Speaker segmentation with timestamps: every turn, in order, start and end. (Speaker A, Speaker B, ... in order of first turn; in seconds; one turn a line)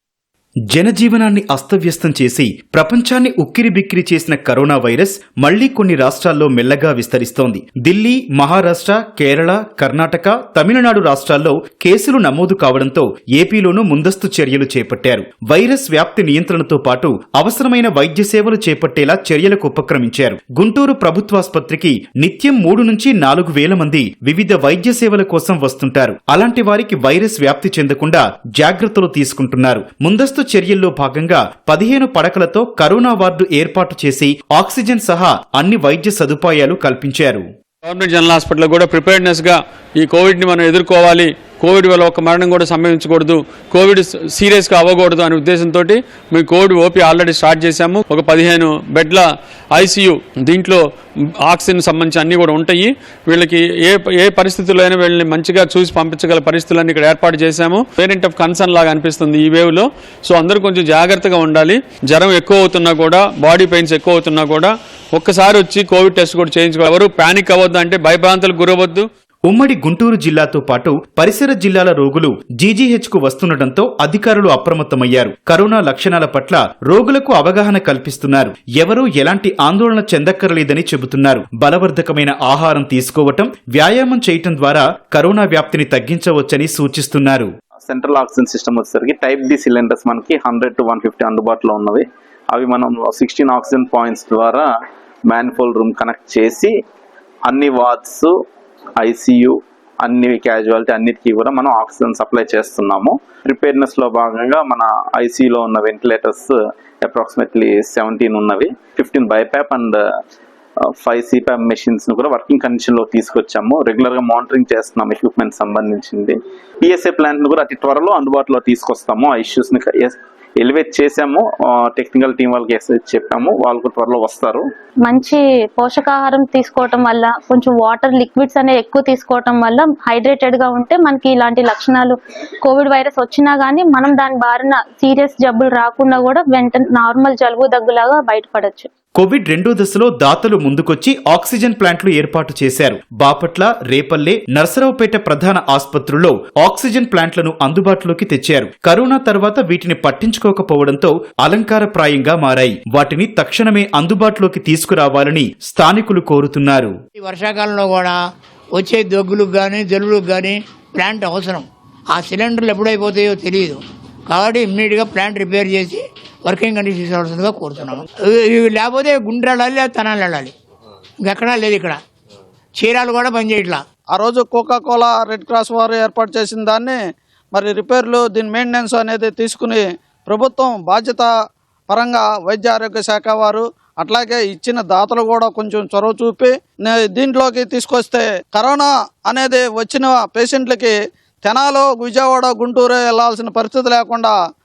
Speaker A: 0.7-37.5
Speaker B: 37.8-50.8
Speaker B: 51.5-69.1
Speaker A: 69.5-87.5
Speaker C: 87.8-94.7
Speaker C: 95.3-96.7
Speaker C: 97.5-98.3
Speaker C: 99.0-110.0
Speaker C: 111.0-124.7
Speaker D: 125.0-138.9
Speaker A: 139.2-156.9
Speaker E: 157.2-158.2
Speaker E: 158.8-170.5
Speaker E: 171.2-172.0
Speaker E: 172.8-173.8
Speaker F: 174.1-177.0
Speaker F: 177.5-181.3
Speaker F: 181.9-194.3